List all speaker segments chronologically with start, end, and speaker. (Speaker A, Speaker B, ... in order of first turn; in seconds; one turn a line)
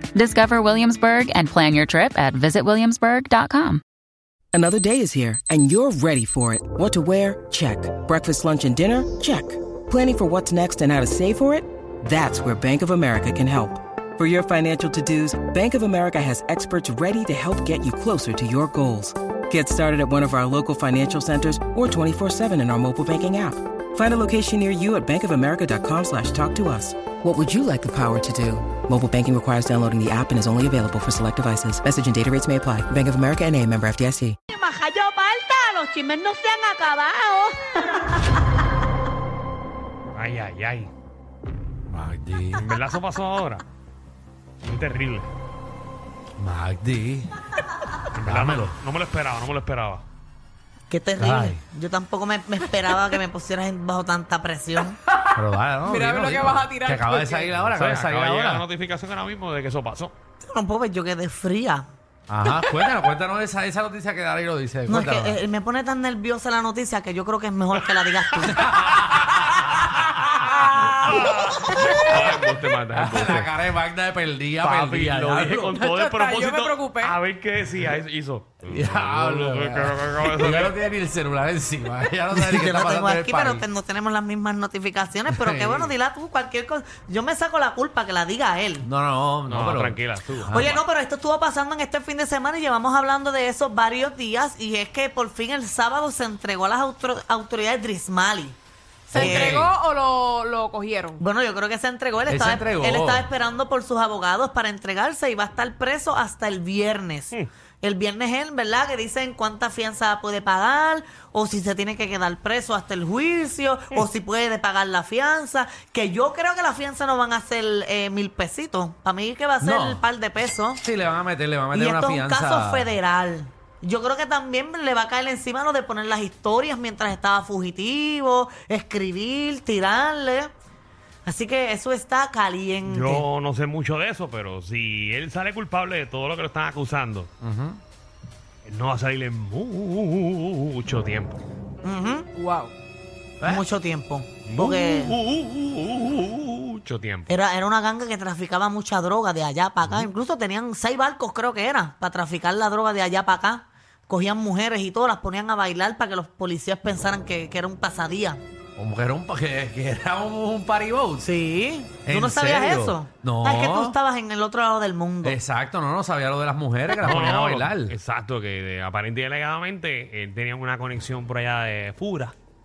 Speaker A: 0.1-3.8
Speaker B: 4.5-34.4
Speaker C: 34.5-38.0
Speaker D: 40.1-40.9
Speaker E: 41.9-42.7
Speaker D: 42.5-43.6
Speaker D: 44.6-45.3
Speaker E: 46.4-47.3
Speaker D: 48.1-50.0
Speaker E: 48.2-48.8
Speaker C: 50.9-55.0
Speaker E: 51.2-51.6
Speaker E: 55.3-58.6
Speaker F: 55.8-57.6
Speaker D: 57.6-60.1
Speaker C: 60.4-61.9
Speaker E: 62.3-65.4
Speaker C: 64.8-68.6
Speaker E: 68.5-70.2
Speaker D: 68.9-69.9
Speaker F: 70.5-71.0
Speaker D: 70.8-73.5
Speaker E: 72.9-75.8
Speaker D: 74.6-80.7
Speaker F: 75.7-77.2
Speaker E: 78.6-83.6
Speaker C: 82.3-88.9
Speaker E: 85.3-85.8
Speaker D: 85.6-85.9
Speaker E: 88.8-90.8
Speaker D: 89.5-90.8
Speaker C: 90.5-98.6
Speaker F: 99.1-101.2
Speaker C: 99.1-99.6
Speaker E: 99.1-99.7
Speaker C: 101.2-120.8
Speaker E: 102.3-103.3
Speaker E: 119.6-120.0
Speaker E: 120.8-123.0
Speaker C: 121.7-130.5
Speaker C: 131.2-133.2
Speaker D: 132.8-137.3
Speaker E: 137.4-137.8
Speaker D: 138.6-141.4
Speaker C: 141.8-142.3
Speaker F: 142.3-142.7
Speaker C: 143.4-145.1
Speaker D: 144.4-147.3
Speaker C: 147.3-158.4
Speaker E: 158.8-161.3
Speaker C: 161.2-165.4
Speaker E: 162.0-164.0
Speaker E: 165.2-167.9
Speaker D: 167.0-172.3